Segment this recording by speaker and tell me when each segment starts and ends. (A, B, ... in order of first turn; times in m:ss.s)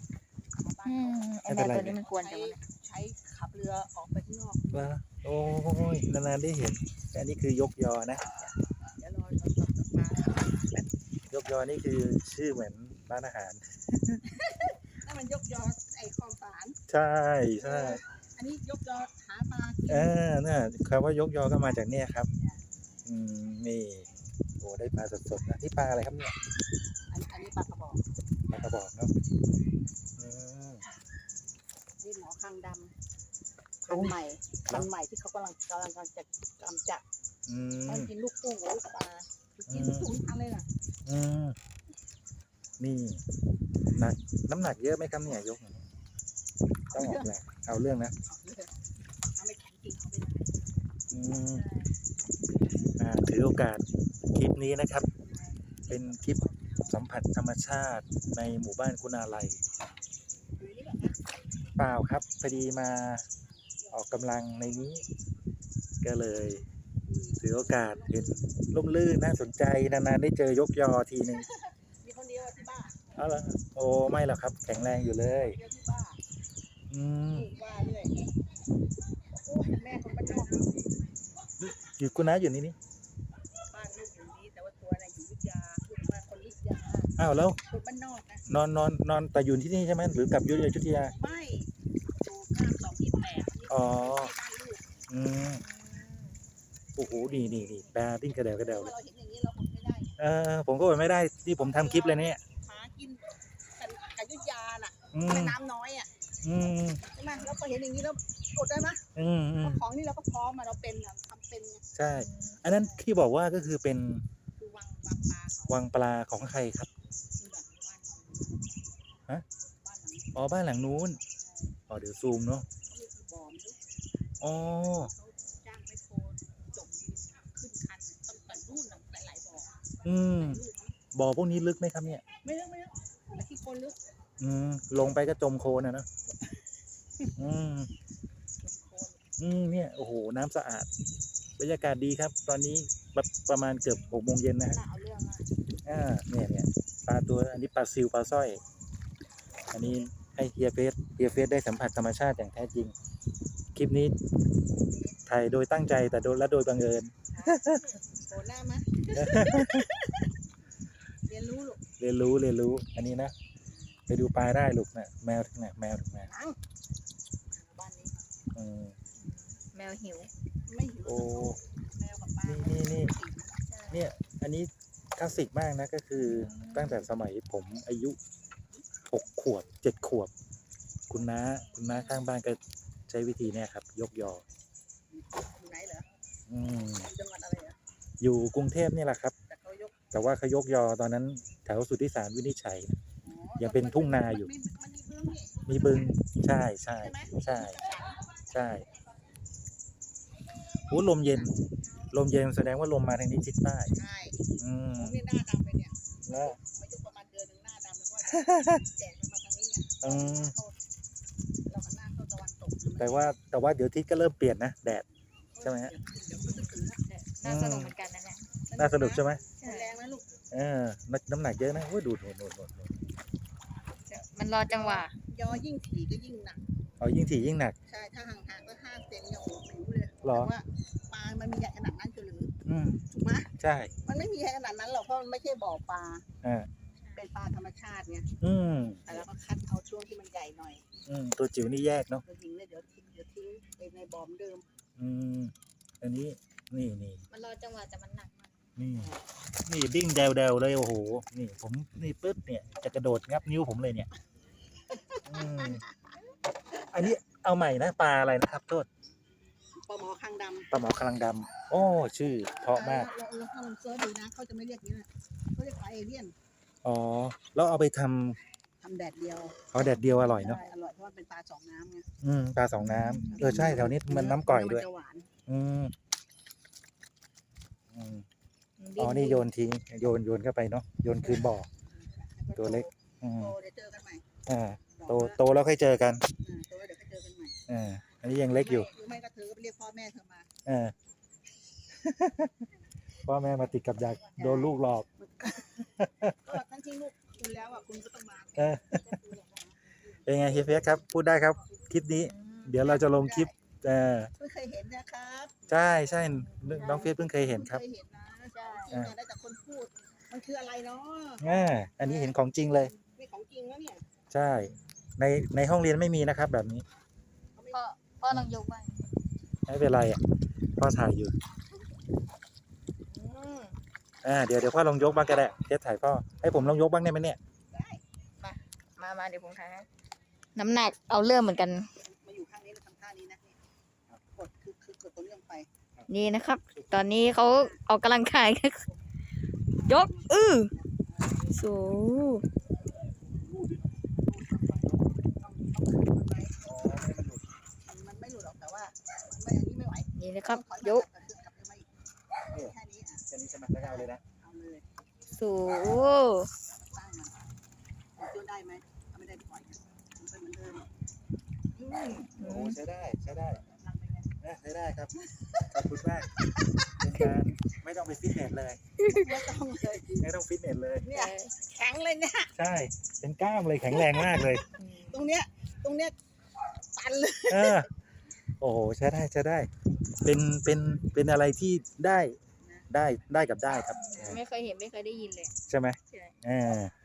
0:00.6-0:01.3 A
0:00.8-0:02.6 B
0:01.4-0:02.0 C
0:02.0-0:04.9 A
0:04.7-0:08.2 C
0:08.2-0:10.9 A
0:11.3-0:14.2 C
0:14.3-0:16.8 A
0:16.9-0:18.0 C
0:17.6-0:20.2 A
0:19.9-0:22.3 C
0:23.1-0:24.1 C
0:24.6-0:26.4 C
0:27.1-0:28.0 A
0:28.5-0:29.1 C
0:30.2-0:30.8 C
0:32.0-0:32.9 A
0:33.8-0:37.0 A
0:33.9-0:34.2 C
0:37.5-0:38.1 C
0:37.9-0:40.7 A
0:39.7-0:40.1 C
0:41.1-0:41.6 C
0:42.8-0:43.2 C
0:43.9-0:45.8 C
0:46.9-0:47.3 A
0:46.9-0:48.2 C
0:48.2-0:48.7 A
0:49.4-0:50.6 A
0:51.1-0:51.6 C
0:51.5-0:51.9 B
0:53.0-0:55.1 C
0:55.2-0:56.9 A
0:55.9-0:59.6 C
1:00.6-1:01.2 A
1:01.8-1:03.2 C
1:03.8-1:05.1 A
1:03.9-1:05.0 C
1:06.0-1:06.6 C
1:07.0-1:08.4 A
1:07.4-1:11.5 C
1:11.3-1:13.0 A
1:13.2-1:15.6 C
1:15.4-1:16.2 A
1:16.9-1:17.5 C
1:17.3-1:18.1 A
1:19.3-1:20.8 A
1:21.6-1:22.8 C
1:23.7-1:28.5 A
1:27.2-1:27.6 C
1:28.5-1:31.1 C
1:31.0-1:34.8 A
1:33.7-1:34.3 C
1:35.1-1:35.6 C
1:35.5-1:36.4 B
1:37.0-1:38.9 C
1:37.4-1:37.8 B
1:38.6-1:40.1 A
1:40.2-1:42.4 C
1:41.6-1:43.2 A
1:43.8-1:46.1 A
1:45.1-1:45.6 C
1:46.4-1:47.0 C
1:47.1-1:49.0 A
1:47.3-1:47.6 B
1:49.2-1:49.8 C
1:49.6-1:51.8 A
1:52.0-1:54.2 C
1:52.1-1:52.7 B
1:54.6-1:55.9 A
1:55.7-1:56.9 C
1:57.4-1:58.7 A
1:59.8-2:00.8 A
2:00.4-2:01.2 C
2:01.4-2:01.8 A
2:01.9-2:02.7 C
2:02.8-2:03.8 A
2:04.4-2:05.1 C
2:04.4-2:11.0 A
2:10.0-2:10.6 C
2:11.1-2:12.2 C
2:12.4-2:14.0 A
2:14.4-2:16.1 C
2:17.4-2:17.9 C
2:18.6-2:19.2 A
2:19.4-2:20.9 C
2:21.6-2:24.8 C
2:23.9-2:25.5 B
2:25.8-2:28.6 C
2:29.7-2:32.9 C
2:33.8-2:34.2 C
2:35.3-2:37.8 C
2:37.3-2:40.1 A
2:39.2-2:39.9 C
2:41.3-2:41.8 A
2:42.0-2:43.3 C
2:44.1-2:46.3 C
2:46.2-2:46.6 A
2:47.5-2:48.3 A
2:48.5-2:49.0 C
2:49.2-2:50.3 B
2:50.7-2:53.6 A
2:51.0-2:51.6 C
2:52.4-2:53.1 C
2:53.7-2:54.1 B
2:53.9-2:58.2 C
2:56.2-2:57.1 B
2:59.1-3:00.3 C
3:01.1-3:04.4 C
3:01.7-3:02.3 B
3:05.1-3:06.1 A
3:06.5-3:07.1 C
3:06.8-3:07.8 A
3:08.2-3:09.4 C
3:09.5-3:10.0 A
3:10.1-3:13.0 C
3:13.2-3:16.2 A
3:13.6-3:14.5 C
3:15.7-3:17.8 C
3:17.0-3:18.3 A
3:18.5-3:18.9 C
3:20.9-3:21.5 C
3:22.1-3:23.9 C
3:23.9-3:24.4 A
3:24.6-3:25.2 C
3:24.9-3:30.8 A
3:26.3-3:26.6 C
3:28.3-3:28.8 C
3:30.0-3:30.5 C
3:31.7-3:33.4 A
3:33.0-3:35.0 C
3:35.5-3:37.0 A
3:35.6-3:35.9 C
3:36.2-3:38.5 B
3:37.4-3:38.0 C
3:38.7-3:40.3 A
3:38.8-3:39.5 C
3:39.6-3:40.0 B
3:40.5-3:42.9 C
3:44.1-3:45.1 B
3:44.7-3:46.6 A
3:47.0-3:47.8 C
3:47.9-3:52.5 A
3:50.2-3:50.5 C
3:52.7-3:53.1 C
3:53.1-3:53.5 A
3:53.6-3:53.9 C
3:54.0-3:56.3 A
3:56.4-3:56.7 C
3:57.0-3:57.3 B
3:57.2-3:58.3 A
3:58.4-3:59.2 C
3:59.1-4:00.9 A
4:01.1-4:02.2 C
4:02.2-4:04.7 A
4:05.0-4:07.2 C
4:07.3-4:08.5 B
4:08.8-4:14.1 C
4:14.9-4:15.9 A
4:15.3-4:15.8 C
4:16.8-4:18.9 C
4:19.8-4:20.7 A
4:20.7-4:23.1 C
4:22.7-4:26.4 A
4:26.8-4:28.4 C
4:28.8-4:29.7 A
4:29.7-4:30.6 C
4:29.8-4:30.6 B
4:30.3-4:32.0 A
4:32.2-4:34.9 C
4:32.8-4:33.8 B
4:33.3-4:35.3 A
4:35.5-4:35.9 C
4:37.9-4:38.2 C
4:38.8-4:39.5 B
4:39.0-4:41.7 C
4:41.2-4:44.2 A
4:42.6-4:43.5 C
4:44.5-4:46.3 C
4:45.0-4:45.4 A
4:46.4-4:47.6 A
4:47.7-4:48.9 C
4:48.6-4:50.5 A
4:50.7-4:50.9 C
4:51.9-4:52.6 C
4:53.3-4:55.1 C
4:54.4-4:55.7 A
4:56.0-4:56.6 C
4:56.4-5:01.0 A
4:58.6-4:59.1 C
5:00.3-5:04.3 C
5:02.2-5:03.0 B
5:02.8-5:03.5 A
5:04.4-5:05.7 A
5:05.7-5:07.8 C
5:06.1-5:07.1 B
5:06.8-5:12.4 A
5:08.5-5:09.0 B
5:08.9-5:09.2 C
5:11.4-5:12.9 C
5:13.1-5:14.0 A
5:14.3-5:16.8 C
5:17.6-5:17.8 A
5:17.7-5:19.2 B
5:19.7-5:20.2 C
5:20.8-5:21.3 C
5:23.1-5:23.8 B
5:24.2-5:27.4 C
5:27.7-5:28.0 A
5:28.4-5:29.9 B
5:30.6-5:31.9 B
5:31.9-5:33.6 A
5:34.3-5:35.7 A
5:36.1-5:38.9 B
5:36.8-5:37.1 C
5:37.1-5:37.8 A
5:39.8-5:41.6 A
5:39.9-5:40.7 B
5:41.5-5:42.4 B
5:43.4-5:46.6 A
5:46.6-5:47.4 C
5:47.9-5:51.9 A
5:50.2-5:51.0 B
5:52.5-5:54.8 A
5:53.3-5:54.2 C
5:55.3-5:56.5 B
5:56.7-5:57.5 A
5:58.2-6:00.9 A
6:01.8-6:02.3 A
6:01.9-6:03.6 C
6:02.2-6:02.8 B
6:03.5-6:04.3 A
6:04.4-6:05.2 C
6:05.3-6:05.7 A
6:05.7-6:06.3 C
6:07.0-6:08.8 C
6:09.0-6:09.3 B
6:09.1-6:10.2 A
6:10.2-6:11.1 C
6:11.0-6:12.5 A
6:11.1-6:11.5 B
6:12.6-6:14.6 C
6:13.9-6:14.4 A
6:14.8-6:15.3 B
6:15.1-6:16.2 A
6:17.0-6:17.9 A
6:17.5-6:17.9 C
6:18.6-6:19.7 C
6:20.2-6:22.4 C
6:22.6-6:22.9 A
6:22.9-6:24.4 C
6:24.0-6:25.6 B
6:24.1-6:24.4 A
6:25.7-6:26.9 C
6:26.1-6:26.4 B